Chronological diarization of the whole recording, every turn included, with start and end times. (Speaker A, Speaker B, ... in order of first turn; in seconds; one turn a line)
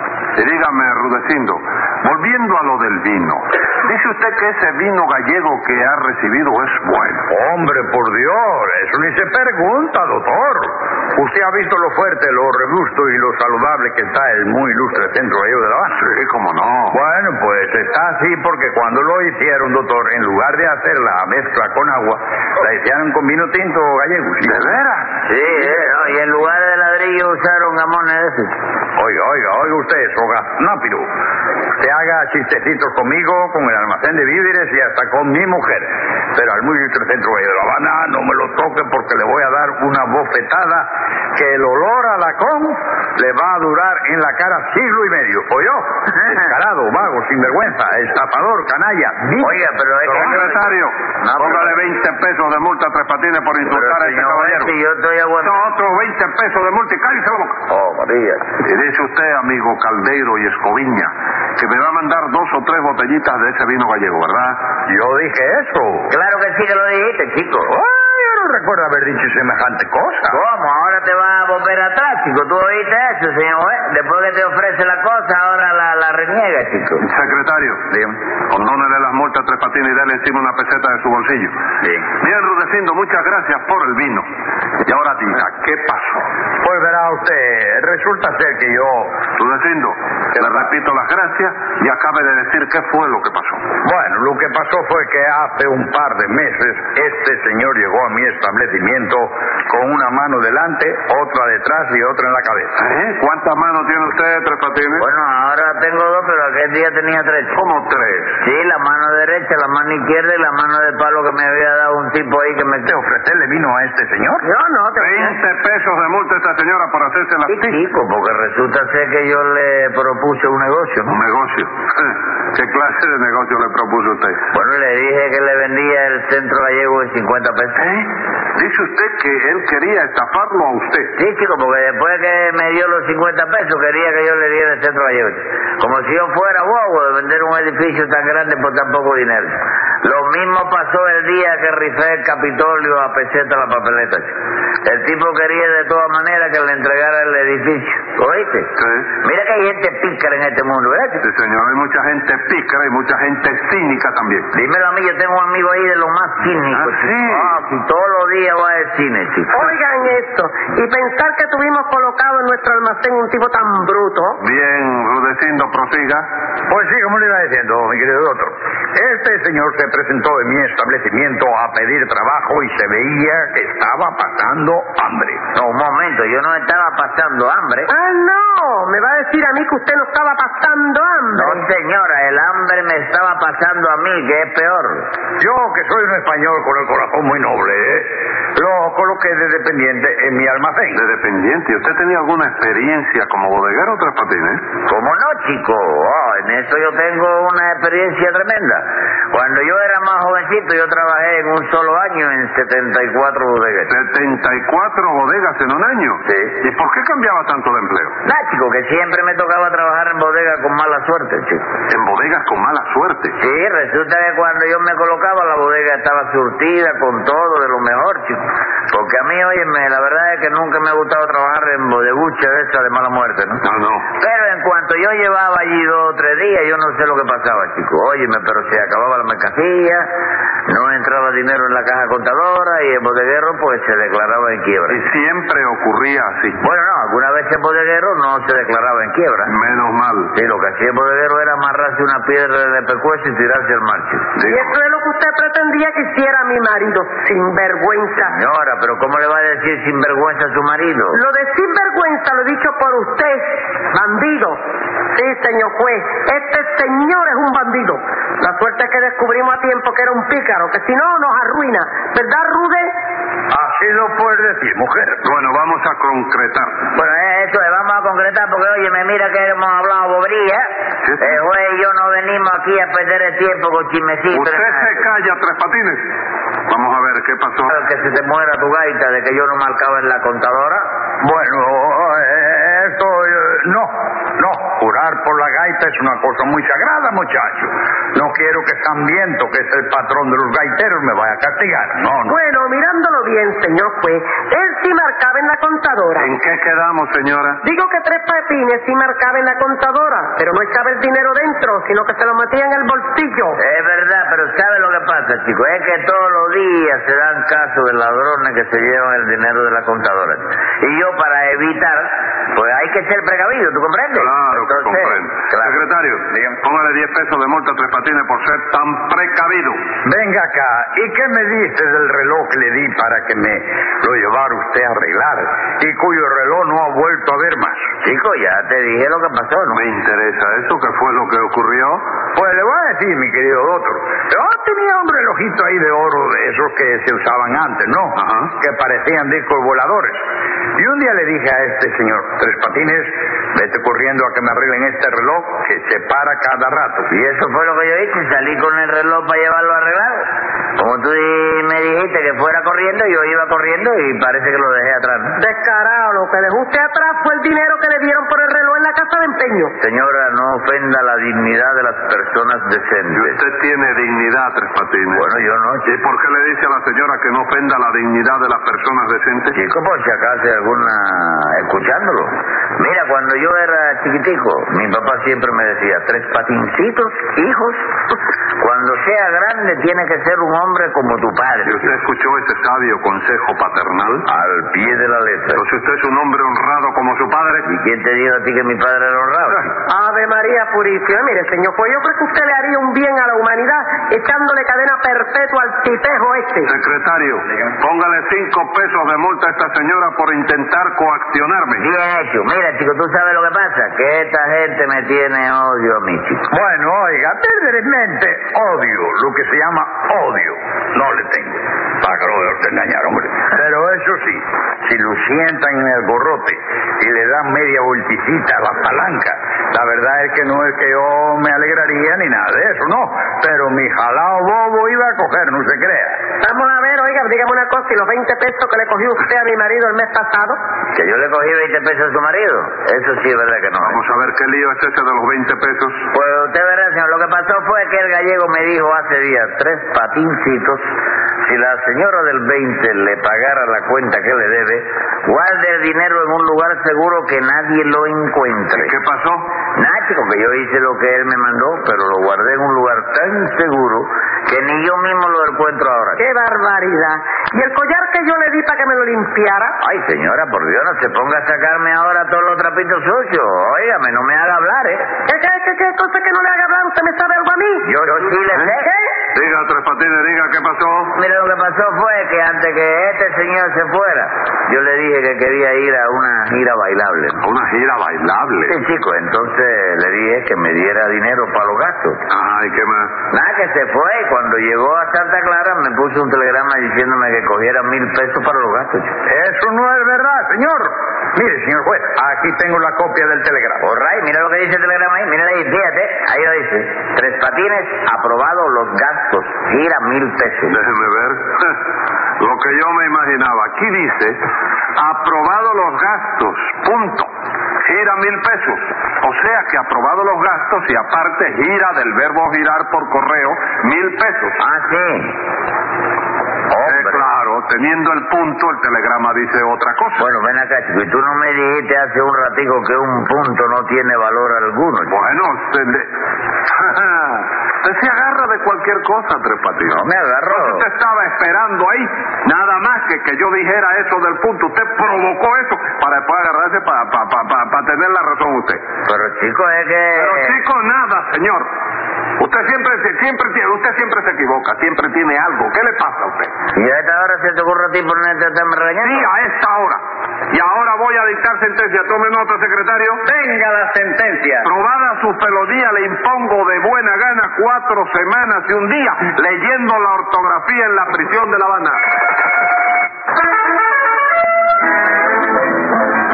Speaker A: 0.4-7.3
Speaker B: 7.3-16.0
Speaker A: 16.0-17.0
Speaker B: 16.9-24.8
Speaker A: 24.4-25.1
Speaker C: 25.3-28.6
Speaker B: 29.0-31.1
Speaker B: 31.8-50.4
Speaker C: 49.4-51.8
Speaker A: 50.1-54.7
Speaker C: 53.6-55.6
Speaker A: 55.4-57.6
Speaker C: 57.7-58.4
Speaker A: 58.6-64.6
Speaker B: 64.9-66.1
Speaker C: 66.1-67.7
Speaker B: 67.7-70.4
Speaker C: 70.3-77.0
Speaker A: 77.0-77.9
Speaker A: 78.5-81.6
Speaker A: 82.2-84.3
Speaker A: 84.9-86.3
Speaker B: 86.6-89.2
Speaker A: 89.4-93.6
Speaker B: 93.8-102.7
Speaker A: 102.8-105.0
Speaker C: 105.0-107.6
Speaker A: 107.5-108.4
Speaker C: 108.4-113.0
Speaker B: 112.8-114.5
Speaker D: 114.4-115.4
Speaker A: 115.0-117.8
Speaker C: 117.5-121.2
Speaker A: 121.1-124.4
Speaker C: 124.5-127.8
Speaker A: 127.8-131.2
Speaker C: 131.2-151.2
Speaker A: 148.8-149.1
Speaker A: 151.2-154.5
Speaker C: 154.5-159.7
Speaker A: 156.7-157.6
Speaker D: 159.5-164.4
Speaker A: 164.4-166.3
Speaker B: 166.7-175.4
Speaker C: 175.5-177.9
Speaker D: 177.9-181.7
Speaker C: 181.3-185.1
Speaker B: 185.4-191.0
Speaker A: 190.9-194.6
Speaker C: 194.9-203.9
Speaker A: 203.9-208.2
Speaker C: 208.2-211.7
Speaker A: 211.9-213.4
Speaker C: 213.4-223.6
Speaker A: 223.6-224.1
Speaker C: 224.2-230.1
Speaker C: 230.7-235.0
Speaker A: 234.9-236.6
Speaker C: 236.6-239.5
Speaker A: 239.5-240.3
Speaker C: 240.3-244.3
Speaker A: 244.4-244.7
Speaker D: 244.5-248.4
Speaker C: 248.2-251.2
Speaker D: 251.1-254.6
Speaker D: 255.1-262.9
Speaker B: 263.5-265.2
Speaker A: 265.2-266.8
Speaker C: 266.9-275.1
Speaker A: 271.0-271.4
Speaker A: 274.3-276.1
Speaker A: 276.7-277.7
Speaker C: 277.7-280.9
Speaker B: 281.2-292.4
Speaker D: 292.3-296.3
Speaker A: 296.2-297.6
Speaker D: 297.6-303.6
Speaker C: 303.6-315.8
Speaker A: 314.1-319.8
Speaker B: 320.1-327.9
Speaker C: 328.0-329.8
Speaker A: 329.7-332.1
Speaker B: 332.4-340.2
Speaker A: 338.2-338.5
Speaker B: 340.8-347.1
Speaker C: 347.1-350.3
Speaker C: 350.8-355.4
Speaker D: 355.4-359.7
Speaker C: 359.8-363.4
Speaker A: 363.1-365.3
Speaker C: 365.1-365.9
Speaker A: 365.9-369.6
Speaker C: 369.6-381.9
Speaker A: 381.6-384.3
Speaker C: 384.3-385.6
Speaker A: 385.5-387.7
Speaker C: 387.7-389.7
Speaker D: 389.9-396.8
Speaker A: 396.7-401.9
Speaker C: 401.8-406.5
Speaker B: 406.5-426.2
Speaker D: 426.4-430.6
Speaker C: 430.9-434.0
Speaker A: 433.8-436.0
Speaker C: 436.1-440.9
Speaker C: 441.4-448.9
Speaker A: 448.7-449.5
Speaker C: 449.8-456.2
Speaker D: 456.2-459.8
Speaker C: 459.8-465.1
Speaker D: 465.3-467.9
Speaker C: 467.9-468.9
Speaker D: 468.6-469.1
Speaker A: 469.4-471.1
Speaker C: 471.2-477.4
Speaker A: 477.4-478.8
Speaker C: 478.7-482.2
Speaker A: 482.3-483.1
Speaker C: 483.3-489.2
Speaker B: 489.3-493.8
Speaker C: 493.8-500.8
Speaker A: 500.7-501.8
Speaker A: 502.4-504.4
Speaker A: 505.0-507.3
Speaker A: 507.8-514.6
Speaker C: 514.6-515.4
Speaker C: 516.7-517.2
Speaker A: 516.9-520.2
Speaker C: 520.2-525.2
Speaker A: 525.1-526.1
Speaker A: 526.7-538.8
Speaker C: 529.8-530.9
Speaker C: 539.1-540.6
Speaker A: 540.1-541.7
Speaker A: 542.4-546.5
Speaker C: 546.8-549.3
Speaker A: 549.0-553.2
Speaker A: 554.6-562.0